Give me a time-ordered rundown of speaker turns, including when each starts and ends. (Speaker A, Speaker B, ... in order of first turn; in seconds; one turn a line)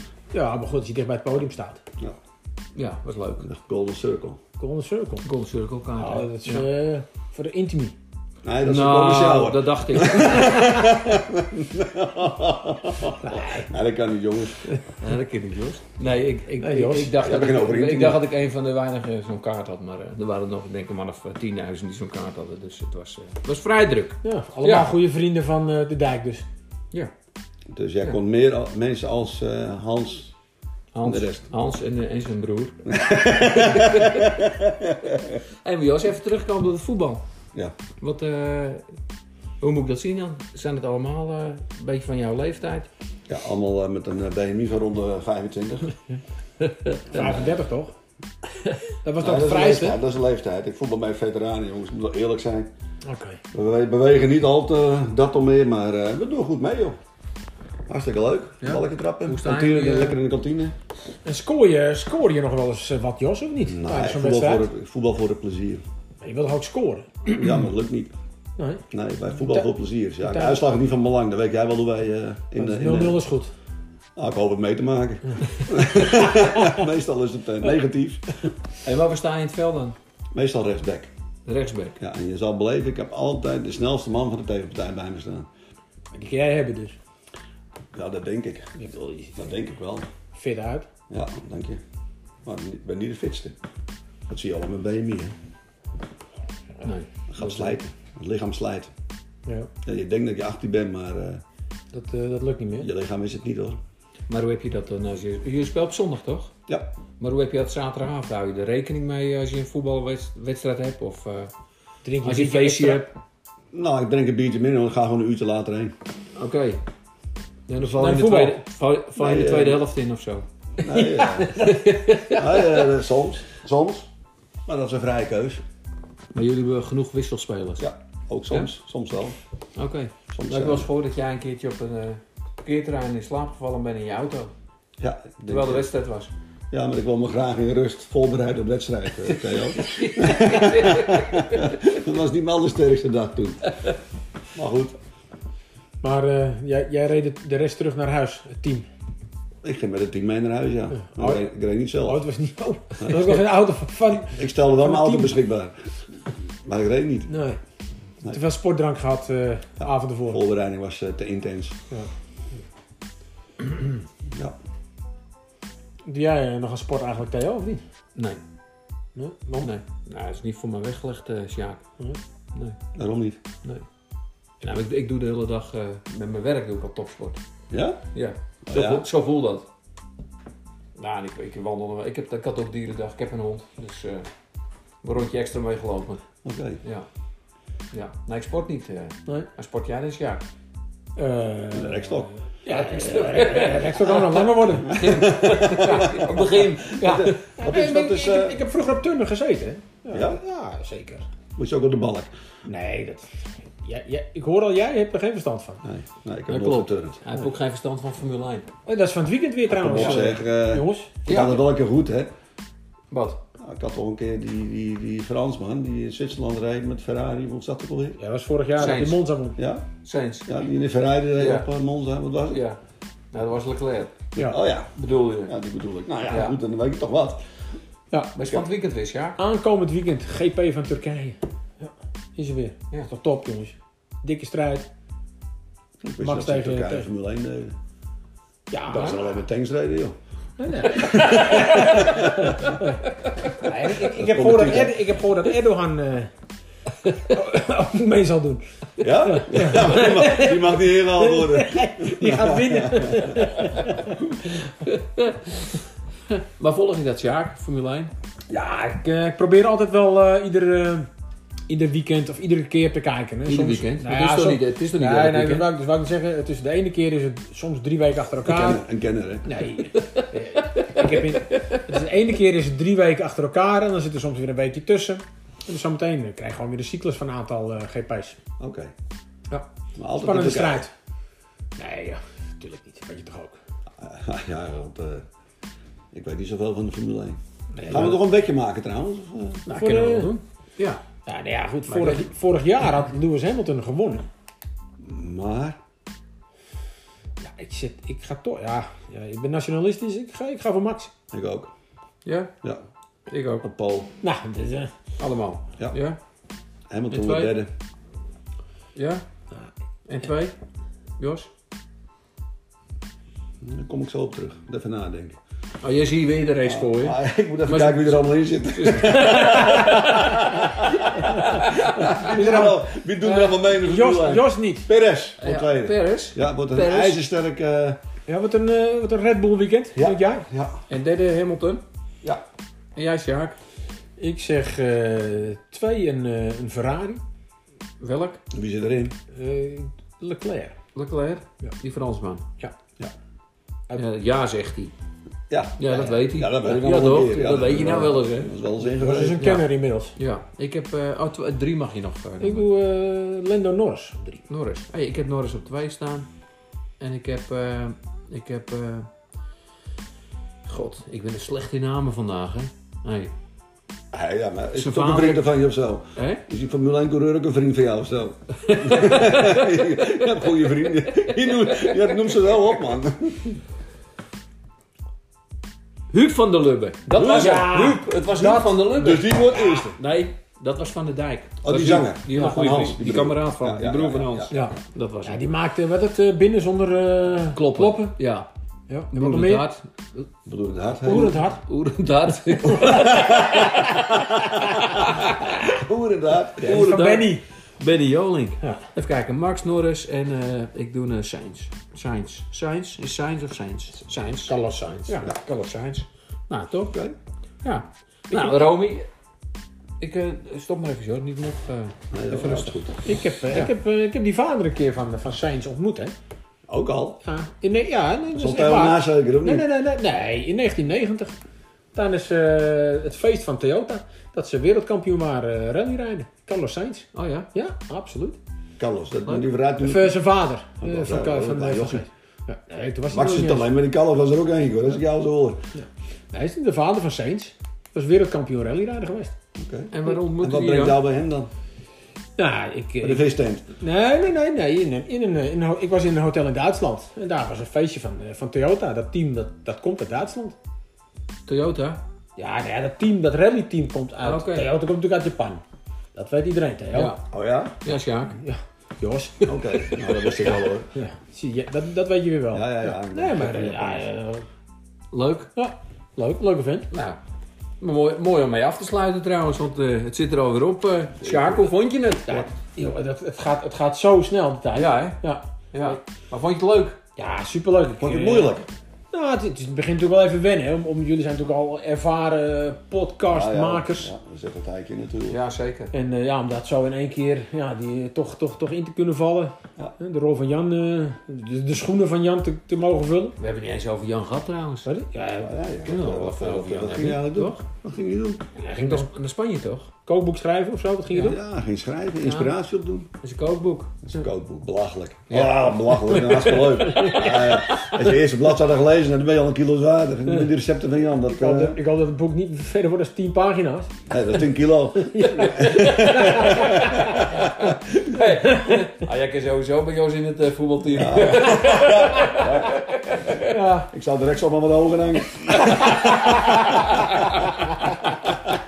Speaker A: 0.3-1.8
Speaker B: 2.8-3.5
Speaker C: 3.4-4.4
Speaker A: 4.6-5.2
Speaker B: 5.2-6.7
Speaker A: 6.0-8.0
Speaker C: 8.4-14.8
Speaker B: 8.6-10.8
Speaker A: 13.2-13.7
Speaker B: 15.0-24.9
Speaker A: 16.6-17.1
Speaker C: 17.2-18.3
Speaker A: 24.2-26.4
Speaker C: 27.7-30.3
Speaker B: 30.9-32.8
Speaker C: 31.0-31.5
Speaker C: 32.9-35.4
Speaker B: 33.4-34.4
Speaker B: 35.6-37.2
Speaker B: 38.0-38.8
Speaker B: 39.6-42.9
Speaker C: 43.3-45.9
Speaker B: 46.6-47.0
Speaker A: 47.1-47.9
Speaker C: 47.1-47.5
Speaker A: 49.0-50.0
Speaker C: 49.2-52.7
Speaker A: 53.0-53.4
Speaker C: 53.5-57.0
Speaker C: 57.9-60.7
Speaker B: 58.6-60.2
Speaker A: 61.2-64.7
Speaker C: 63.7-65.8
Speaker A: 66.2-67.3
Speaker C: 67.3-68.1
Speaker A: 68.6-68.8
Speaker C: 68.9-73.2
Speaker A: 69.4-69.7
Speaker A: 70.2-70.6
Speaker A: 72.6-73.5
Speaker C: 74.2-78.5
Speaker B: 78.8-80.0
Speaker C: 80.3-81.1
Speaker B: 81.5-82.0
Speaker C: 82.0-85.5
Speaker A: 86.1-87.0
Speaker C: 87.9-88.7
Speaker A: 88.8-89.5
Speaker C: 89.4-90.1
Speaker A: 90.3-90.9
Speaker C: 91.1-91.8
Speaker C: 92.5-93.6
Speaker C: 94.3-95.3
Speaker B: 96.8-97.8
Speaker C: 97.3-98.9
Speaker C: 99.8-101.4
Speaker A: 101.9-102.9
Speaker C: 102.8-103.8
Speaker B: 104.3-106.5
Speaker C: 106.7-106.9
Speaker B: 107.2-111.5
Speaker A: 112.0-113.1
Speaker B: 112.2-113.1
Speaker C: 113.7-115.9
Speaker B: 116.4-116.8
Speaker B: 117.7-120.5
Speaker A: 117.9-118.6
Speaker C: 119.2-119.8
Speaker C: 120.8-121.7
Speaker A: 121.0-121.7
Speaker B: 121.3-122.9
Speaker C: 122.3-124.1
Speaker C: 124.7-125.6
Speaker B: 126.3-127.9
Speaker C: 127.8-129.4
Speaker B: 129.8-134.5
Speaker C: 130.3-130.9
Speaker C: 135.0-135.9
Speaker B: 135.5-136.3
Speaker C: 136.7-143.8
Speaker B: 139.3-141.7
Speaker C: 144.6-145.0
Speaker A: 146.0-148.9
Speaker C: 149.6-152.2
Speaker A: 150.9-151.5
Speaker A: 152.0-155.4
Speaker C: 153.0-153.4
Speaker C: 154.2-155.8
Speaker C: 156.7-157.3
Speaker A: 157.3-157.6
Speaker A: 158.2-160.4
Speaker C: 159.8-161.8
Speaker A: 166.1-167.8
Speaker A: 169.2-169.7
Speaker B: 169.6-171.8
Speaker C: 172.9-173.4
Speaker B: 174.6-177.4
Speaker C: 177.7-178.1
Speaker B: 178.1-179.7
Speaker C: 178.7-179.1
Speaker B: 181.0-184.3
Speaker B: 185.0-186.2
Speaker C: 186.4-186.8
Speaker B: 187.9-190.4
Speaker A: 191.2-195.9
Speaker C: 191.7-192.3
Speaker B: 192.7-197.4
Speaker C: 194.9-198.6
Speaker A: 197.0-201.3
Speaker C: 200.1-200.4
Speaker C: 201.6-202.3
Speaker A: 202.7-205.8
Speaker C: 205.8-207.2
Speaker B: 206.5-208.7
Speaker A: 208.9-211.1
Speaker C: 209.7-212.3
Speaker B: 209.8-210.3
Speaker B: 211.3-211.7
Speaker B: 213.1-213.4
Speaker C: 213.6-218.2
Speaker A: 218.2-219.6
Speaker B: 218.8-219.3
Speaker C: 219.6-219.9
Speaker B: 220.0-220.5
Speaker C: 220.5-222.7
Speaker B: 221.4-221.7
Speaker B: 222.5-222.8
Speaker B: 223.3-224.3
Speaker C: 224.4-227.4
Speaker B: 224.9-225.5
Speaker B: 226.3-226.6
Speaker A: 228.1-228.4
Speaker B: 228.3-229.4
Speaker A: 229.4-234.9
Speaker C: 236.0-237.8
Speaker A: 236.2-237.1
Speaker A: 238.7-239.2
Speaker C: 238.9-240.2
Speaker A: 240.6-243.0
Speaker C: 240.9-242.6
Speaker B: 241.7-242.1
Speaker A: 243.6-246.3
Speaker C: 244.0-245.1
Speaker A: 247.3-254.3
Speaker C: 249.0-253.8
Speaker B: 249.7-250.3
Speaker B: 254.8-255.7
Speaker B: 256.3-258.1
Speaker A: 258.5-261.1
Speaker A: 261.7-268.8
Speaker B: 263.5-265.7
Speaker C: 268.4-269.6
Speaker A: 269.4-278.4
Speaker B: 271.5-271.8
Speaker C: 278.6-278.9
Speaker C: 280.0-280.8
Speaker A: 280.2-280.9
Speaker A: 281.8-283.6
Speaker C: 284.0-285.3
Speaker C: 286.1-289.7
Speaker A: 287.8-288.2
Speaker A: 289.7-290.4
Speaker B: 289.7-291.0
Speaker A: 291.3-294.3
Speaker B: 291.9-292.3
Speaker C: 295.0-295.8
Speaker A: 297.4-301.1
Speaker C: 301.3-301.7
Speaker B: 302.2-302.5
Speaker B: 303.3-303.7
Speaker C: 303.6-304.1
Speaker A: 304.2-304.9
Speaker B: 305.2-306.2
Speaker C: 306.9-307.7
Speaker B: 307.1-307.6
Speaker B: 309.0-309.2
Speaker B: 310.1-310.6
Speaker B: 311.2-311.5
Speaker C: 313.6-315.4
Speaker B: 315.8-322.4
Speaker C: 316.6-328.0
Speaker A: 322.2-324.9
Speaker B: 325.4-327.2
Speaker A: 328.3-330.5
Speaker C: 329.9-330.8
Speaker B: 330.9-331.8
Speaker B: 333.0-333.6
Speaker A: 334.2-337.2
Speaker B: 338.0-338.4
Speaker C: 338.5-339.2
Speaker A: 339.3-340.8
Speaker B: 340.9-342.4
Speaker B: 344.0-344.9
Speaker C: 345.5-349.6
Speaker B: 345.8-348.5
Speaker A: 348.8-350.1
Speaker B: 349.3-352.7
Speaker A: 352.4-354.4
Speaker B: 354.4-356.3
Speaker B: 357.0-359.1
Speaker B: 360.7-363.3
Speaker C: 364.1-373.6
Speaker B: 364.8-365.5
Speaker B: 366.2-366.4
Speaker B: 368.6-372.1
Speaker B: 376.1-385.5
Speaker A: 377.1-378.9
Speaker C: 377.2-377.8
Speaker C: 378.9-380.0
Speaker A: 379.4-379.8
Speaker C: 381.6-384.7
Speaker A: 382.4-382.8
Speaker A: 384.5-388.1
Speaker B: 387.5-388.5
Speaker A: 388.9-389.7
Speaker B: 389.1-389.8
Speaker C: 390.5-391.5
Speaker A: 391.0-391.6
Speaker B: 391.1-395.5
Speaker C: 392.9-393.8
Speaker C: 394.5-397.2
Speaker A: 396.6-397.4
Speaker B: 396.6-404.5
Speaker A: 398.6-398.9
Speaker A: 404.5-405.2
Speaker B: 405.1-407.0
Speaker B: 407.6-409.1
Speaker A: 408.3-408.6
Speaker B: 410.0-412.9
Speaker C: 412.1-413.0
Speaker A: 413.1-416.1
Speaker C: 416.7-417.2
Speaker A: 417.2-421.4
Speaker C: 418.3-419.7
Speaker A: 421.9-428.4
Speaker B: 427.1-427.5
Speaker C: 428.8-432.0
Speaker A: 429.8-433.7
Speaker C: 433.1-435.7
Speaker A: 435.8-439.3
Speaker C: 439.6-441.5
Speaker B: 439.9-441.0
Speaker A: 442.4-450.6
Speaker C: 443.0-443.7
Speaker B: 451.5-452.0
Speaker A: 452.4-455.6
Speaker B: 454.2-454.7
Speaker A: 456.1-457.2
Speaker B: 456.9-457.2
Speaker C: 457.3-457.8
Speaker B: 457.8-458.4
Speaker A: 458.4-459.5
Speaker C: 459.4-460.9
Speaker B: 459.9-460.6
Speaker A: 460.9-464.5
Speaker C: 462.5-464.1
Speaker B: 465.1-465.5
Speaker A: 465.6-466.9
Speaker B: 466.9-467.2
Speaker B: 467.8-472.5
Speaker C: 471.2-471.7
Speaker A: 472.3-476.0
Speaker B: 474.7-477.0
Speaker A: 477.2-478.6
Speaker C: 478.0-478.7
Speaker A: 479.1-484.1
Speaker C: 483.3-485.4
Speaker B: 485.3-485.9
Speaker A: 485.9-493.4
Speaker B: 493.4-494.9
Speaker A: 494.9-495.5
Speaker C: 495.4-498.4
Speaker B: 495.9-497.6
Speaker A: 498.6-499.1
Speaker B: 498.7-499.9
Speaker A: 500.1-501.4
Speaker B: 501.1-501.4
Speaker C: 501.2-503.1
Speaker B: 502.2-502.5
Speaker B: 503.2-504.0
Speaker C: 504.1-511.8
Speaker B: 505.3-508.0
Speaker A: 511.3-513.9
Speaker C: 514.1-517.4
Speaker A: 515.0-517.0
Speaker B: 515.4-516.7
Speaker B: 517.3-523.5
Speaker C: 520.9-522.7
Speaker A: 523.5-523.9
Speaker C: 523.9-526.5
Speaker B: 525.8-528.3